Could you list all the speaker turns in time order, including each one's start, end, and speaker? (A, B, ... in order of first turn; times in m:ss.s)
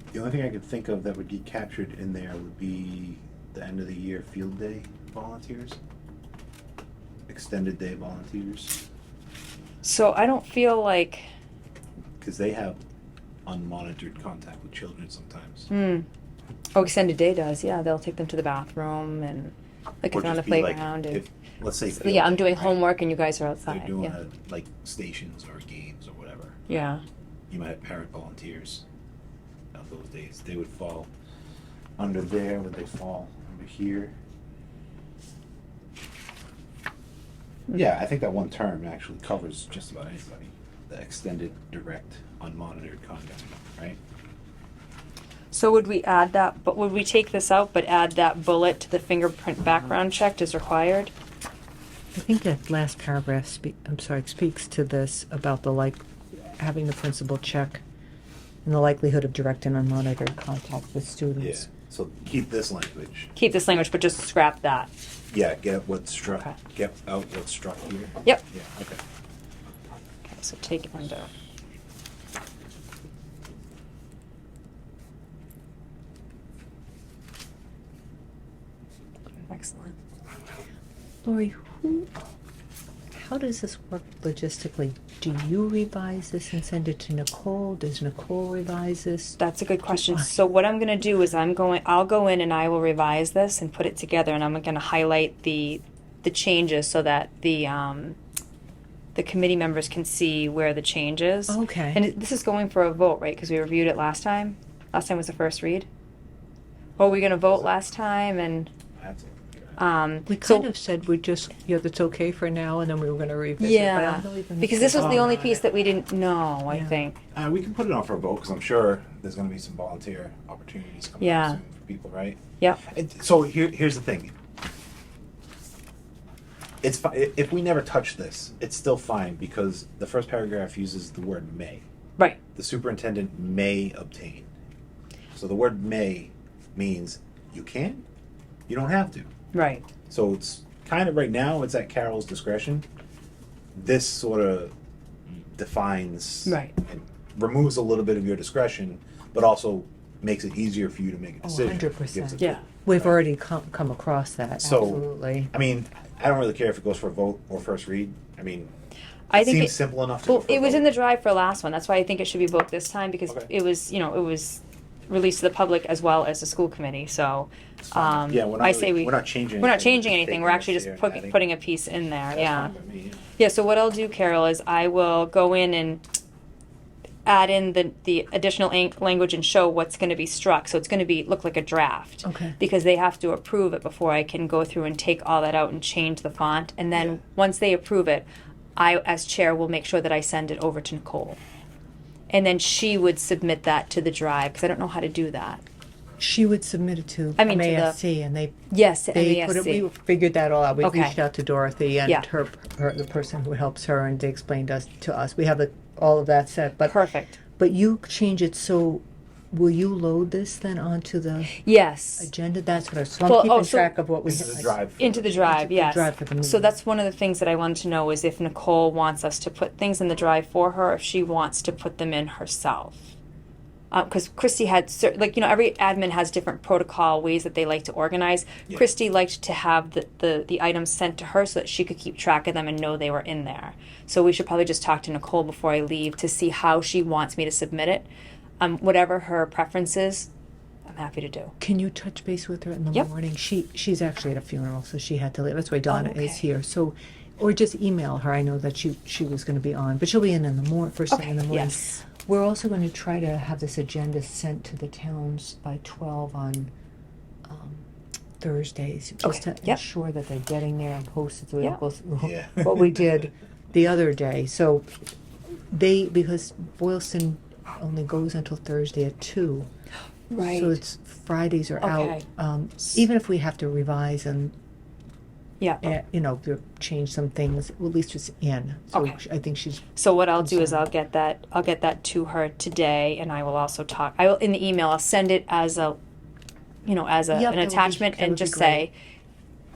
0:00.1-0:05.8 A
0:07.3-0:08.8 A
0:09.8-0:11.3 B
0:12.2-0:12.8 A
0:13.5-0:15.7 A
0:15.7-0:16.1 B
0:16.8-0:21.2 B
0:20.1-0:22.8 A
0:21.9-0:24.2 B
0:23.7-0:26.6 A
0:26.7-0:27.0 B
0:27.5-0:28.8 A
0:29.7-0:31.1 A
0:32.0-0:34.1 A
0:37.7-0:44.0 A
0:45.5-0:51.1 B
0:52.1-0:56.0 C
0:56.6-0:57.8 C
0:58.6-1:01.7 C
1:01.4-1:03.3 A
1:03.4-1:04.9 B
1:05.3-1:09.0 A
1:06.3-1:06.6 B
1:10.3-1:11.3 B
1:19.5-1:19.9 B
1:21.2-1:22.1 C
1:23.1-1:30.3 C
1:29.4-1:38.2 B
1:39.2-1:45.9 B
1:41.5-1:42.0 C
1:47.0-1:48.7 B
1:49.0-1:49.8 A
1:49.8-1:50.7 B
1:50.3-1:55.6 C
1:53.6-1:57.2 B
1:56.7-1:57.0 C
1:57.3-2:04.3 A
2:01.2-2:01.6 B
2:06.8-2:11.8 A
2:12.6-2:14.5 A
2:15.3-2:18.0 A
2:18.7-2:19.3 A
2:19.5-2:19.8 B
2:20.1-2:22.8 A
2:23.7-2:24.7 A
2:25.4-2:33.2 A
2:26.5-2:26.7 B
2:31.4-2:35.5 C
2:34.6-2:38.7 A
2:39.3-2:39.8 B
2:39.3-2:40.9 A
2:40.3-2:52.7 B
2:47.8-2:51.4 A
2:52.3-2:53.2 A
2:53.4-2:56.0 B
2:57.3-3:11.4 B
3:02.2-3:02.6 C
3:12.3-3:15.6 B
3:16.2-3:18.6 C
3:17.4-3:18.0 B
3:18.7-3:19.9 B
3:19.1-3:27.0 C
3:20.8-3:21.2 B
3:26.8-3:27.4 B
3:27.6-3:31.6 C
3:31.6-3:32.3 B
3:32.2-3:34.8 C
3:33.2-3:33.9 B
3:34.2-3:35.3 A
3:35.0-3:43.1 B
3:35.4-3:36.7 C
3:43.9-3:58.1 B
3:58.6-4:00.3 B
4:00.9-4:01.5 B
4:01.6-4:16.7 C
4:05.9-4:06.4 B
4:11.1-4:11.9 B
4:17.5-4:17.8 C
4:18.4-4:25.0 C
4:19.2-4:19.8 B
4:22.2-4:23.1 A
4:25.7-4:29.7 C
4:30.3-4:30.8 B
4:30.4-4:34.5 C
4:31.8-4:32.2 B
4:35.8-4:40.9 C
4:38.9-4:39.2 B
4:40.0-4:46.0 B
4:46.8-4:48.9 B
4:47.3-4:48.9 C